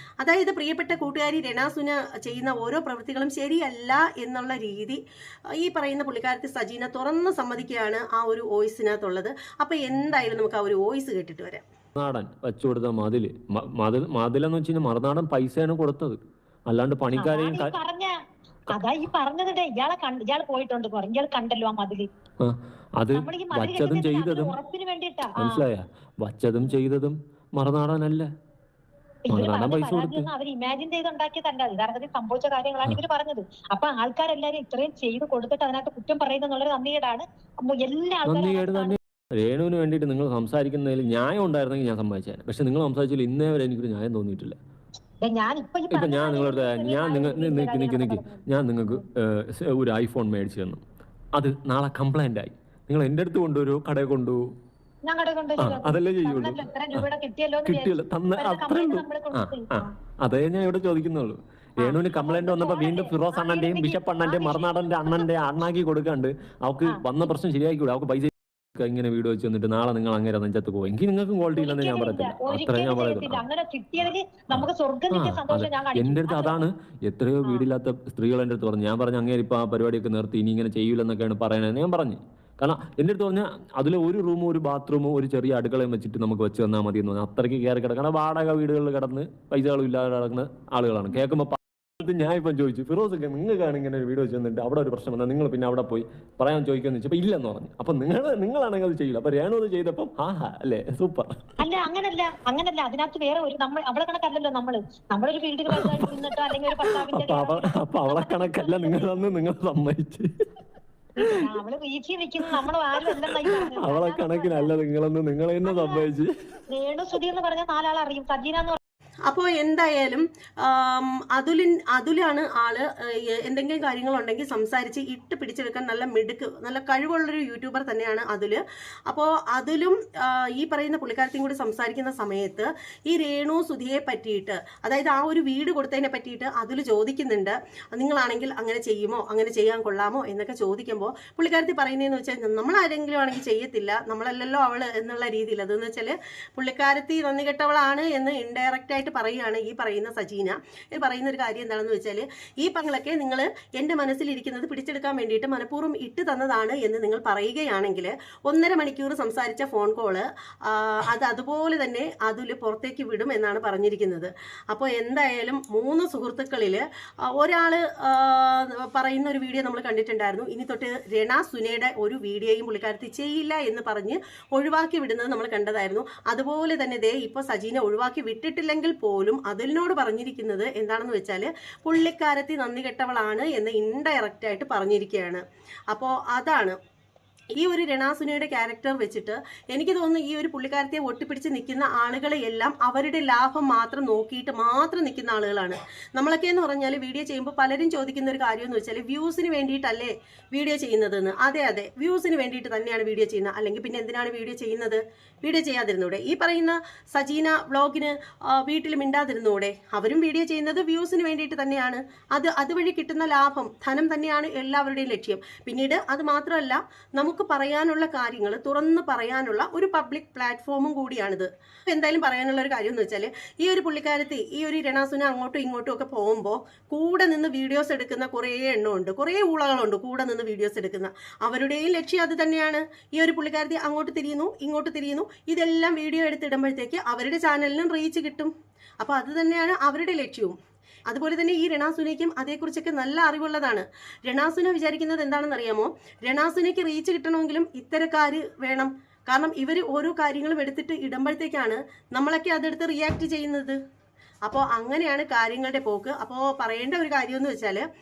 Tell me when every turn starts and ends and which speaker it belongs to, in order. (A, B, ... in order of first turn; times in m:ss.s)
0:00.2-0:05.0 A
0:05.6-0:11.6 A
0:12.0-0:17.7 B
0:17.2-0:18.1 C
0:18.7-0:22.1 C
0:22.4-0:24.6 B
0:23.1-0:25.6 C
0:25.4-0:28.3 B
0:29.2-0:39.0 C
0:29.3-0:30.3 B
0:38.2-0:44.6 B
0:45.2-0:49.0 C
0:45.9-0:50.8 B
0:51.3-0:54.4 B
0:55.1-0:59.9 C
0:55.6-0:57.0 B
0:57.6-1:13.4 B
1:01.8-1:05.3 C
1:11.6-1:16.7 C
1:14.5-1:41.4 B
1:17.4-1:17.7 C
1:41.6-1:49.1 C
1:45.7-1:46.3 B
1:46.8-1:50.4 B
1:51.2-1:51.4 B
1:51.2-1:54.7 C
1:52.5-1:56.3 B
1:55.6-1:56.0 C
1:56.7-1:58.8 C
1:59.3-2:46.8 A
2:47.4-3:06.8 A
3:07.6-4:00.5 A
4:01.1-4:13.8 A
4:14.4-4:17.8 A